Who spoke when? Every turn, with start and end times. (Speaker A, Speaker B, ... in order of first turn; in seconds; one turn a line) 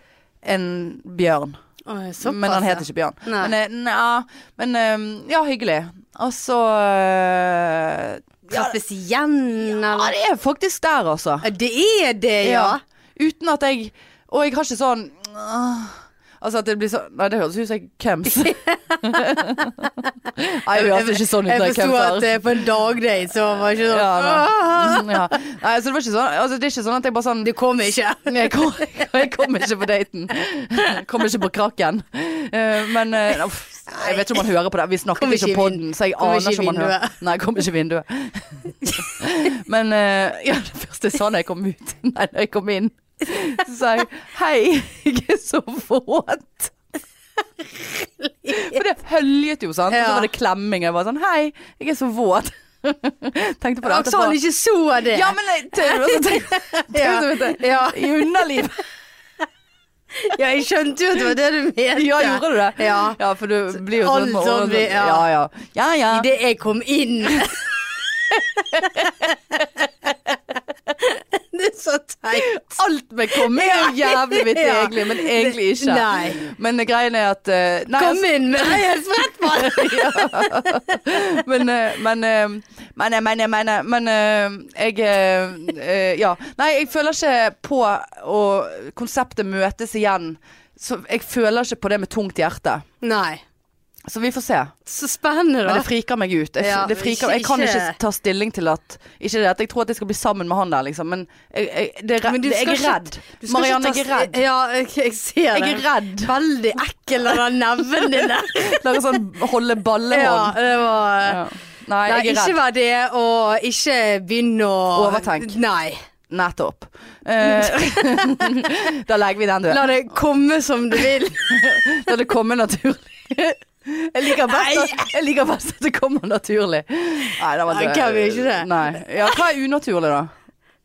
Speaker A: 0.4-1.6
Speaker B: 1.9-3.5
Speaker A: 2.2-8.7
Speaker B: 8.5-10.1
Speaker A: 9.8-11.4
Speaker B: 11.4-12.8
Speaker A: 12.4-22.4
Speaker B: 18.4-19.0
Speaker B: 20.7-25.1
Speaker A: 23.7-27.5
Speaker B: 27.4-28.5
Speaker A: 28.3-46.7
Speaker B: 33.9-34.4
Speaker B: 35.1-37.2
Speaker B: 47.8-48.8
Speaker A: 48.5-54.4
Speaker B: 49.9-50.3
Speaker B: 53.8-58.1
Speaker A: 55.1-58.8
Speaker B: 60.1-63.2
Speaker A: 62.0-66.3
Speaker B: 63.8-65.2
Speaker B: 66.1-67.8
Speaker B: 68.3-69.7
Speaker A: 68.7-69.0
Speaker B: 71.0-72.7
Speaker A: 72.4-78.9
Speaker B: 73.3-76.5
Speaker B: 78.0-81.0
Speaker A: 79.4-92.8
Speaker B: 93.0-93.4
Speaker A: 94.1-94.7
Speaker B: 94.8-95.9
Speaker A: 95.7-104.3
Speaker B: 96.6-98.0
Speaker B: 102.2-109.2
Speaker A: 105.5-106.3
Speaker A: 107.9-110.6
Speaker B: 110.1-111.4
Speaker A: 111.2-112.6
Speaker B: 112.0-116.0
Speaker A: 114.9-115.6
Speaker A: 116.3-119.9
Speaker B: 117.4-118.3
Speaker B: 119.7-121.6
Speaker A: 121.0-130.3
Speaker B: 124.3-125.1
Speaker B: 127.7-129.4